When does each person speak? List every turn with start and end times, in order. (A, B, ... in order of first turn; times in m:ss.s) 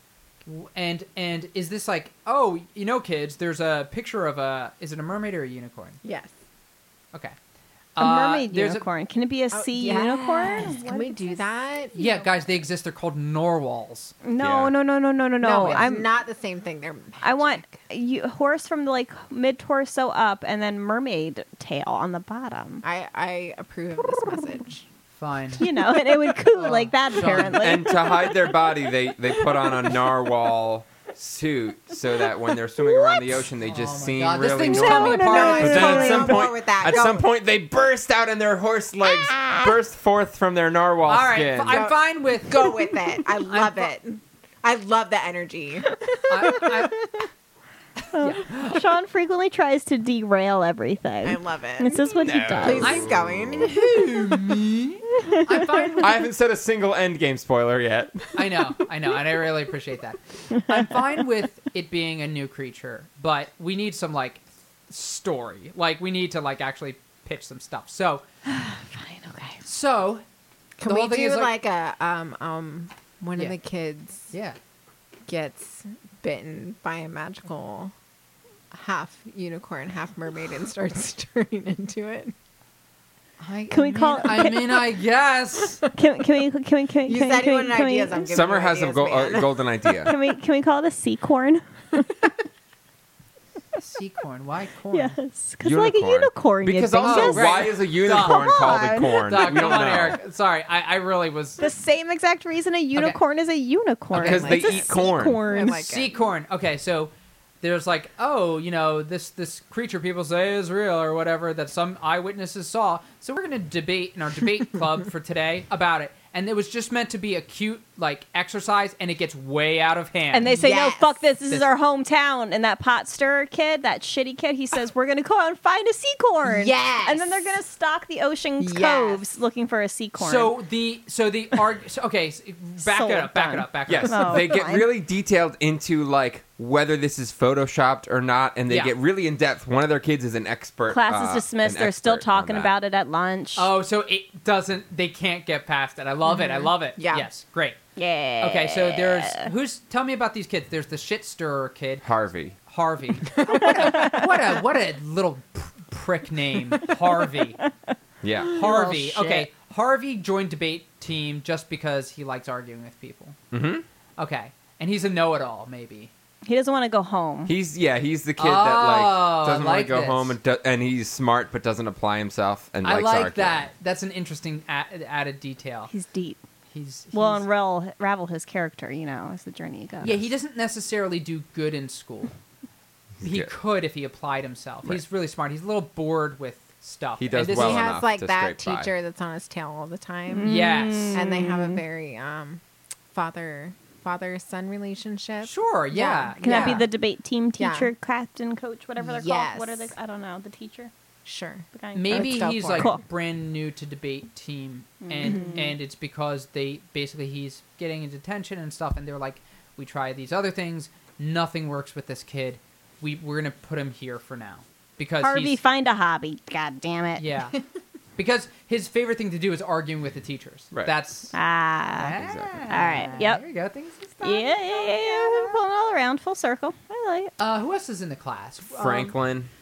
0:00.4-0:06.0 A
0:06.0-0:06.3 B
0:08.0-0:08.8 A
0:08.0-0:11.4 C
0:09.5-0:12.1 B
0:12.0-0:14.2 A
0:14.2-0:16.1 C
0:14.4-0:14.7 D
0:15.4-0:17.8 B
0:17.2-0:22.8 C
0:22.8-0:24.8 B
0:25.2-0:25.7 A
0:25.6-0:28.3 C
0:26.5-0:27.8 A
0:27.6-0:41.9 D
0:33.6-0:36.2 A
0:34.6-0:36.5 C
0:35.2-0:37.2 B
0:41.1-0:42.9 A
0:41.7-0:46.7 B
0:43.4-0:43.9 A
0:46.3-0:47.1 A
0:48.1-0:53.0 C
0:48.2-0:48.8 A
0:51.2-0:54.6 B
0:52.2-0:53.7 D
0:52.8-0:56.3 A
0:56.0-0:58.3 D
0:58.4-1:08.2 A
1:08.5-1:09.6 C
1:09.6-1:10.2 A
1:10.8-1:14.3 B
1:10.9-1:11.6 A
1:14.3-1:14.6 A
1:15.3-1:17.9 B
1:18.7-1:22.3 B
1:23.4-1:25.8 A
1:23.7-1:24.9 C
1:25.9-1:28.3 C
1:27.0-1:29.6 B
1:28.3-1:30.1 D
1:30.0-1:32.0 C
1:33.8-1:35.2 A
1:34.9-1:37.6 C
1:35.6-1:40.2 D
1:37.0-1:41.6 A
1:38.2-1:39.2 C
1:41.6-1:45.8 C
1:44.1-1:45.4 D
1:44.2-1:46.2 B
1:45.7-2:00.6 A
2:00.3-2:10.5 C
2:00.5-2:01.2 B
2:06.5-2:07.5 B
2:08.6-2:09.2 B
2:10.2-2:14.4 A
2:12.8-2:14.9 C
2:13.9-2:22.7 D
2:18.7-2:18.9 A
2:20.9-2:23.7 C
2:23.6-2:27.8 A
2:26.3-2:27.3 B
2:28.0-2:29.5 C
2:28.4-2:32.0 A
2:32.0-2:32.6 D
2:32.7-2:37.6 A
2:33.5-2:33.9 B
2:33.7-2:34.3 C
2:38.2-2:38.6 D
2:38.5-2:43.4 A
2:38.5-2:39.5 C
2:43.5-2:43.8 D
2:44.2-2:46.1 A
2:46.5-2:47.5 C
2:47.5-2:53.7 D
2:48.4-2:50.3 A
2:52.8-2:55.9 A
2:55.9-2:56.4 C
2:56.7-2:57.4 A
2:57.1-3:00.3 C
3:00.0-3:02.4 A
3:03.2-3:03.5 D
3:03.2-3:07.9 A
3:07.2-3:08.9 D
3:07.5-3:10.6 B
3:10.3-3:11.8 C
3:10.4-3:11.2 A
3:11.1-3:12.6 B
3:13.1-3:16.9 B
3:15.4-3:16.8 A
3:16.4-3:20.9 C
3:17.6-3:17.9 B
3:19.0-3:20.0 B
3:21.2-3:22.9 B
3:21.7-3:23.0 C
3:22.0-3:35.6 A
3:25.0-3:25.8 C
3:25.2-3:25.6 B
3:35.2-3:37.3 C
3:37.2-3:37.6 A
3:38.2-3:41.3 A
3:41.3-3:42.2 C
3:41.9-3:45.0 A
3:42.2-3:42.6 D
3:42.7-3:43.4 C
3:44.2-3:47.3 C
3:47.4-3:49.1 A
3:48.7-3:49.5 D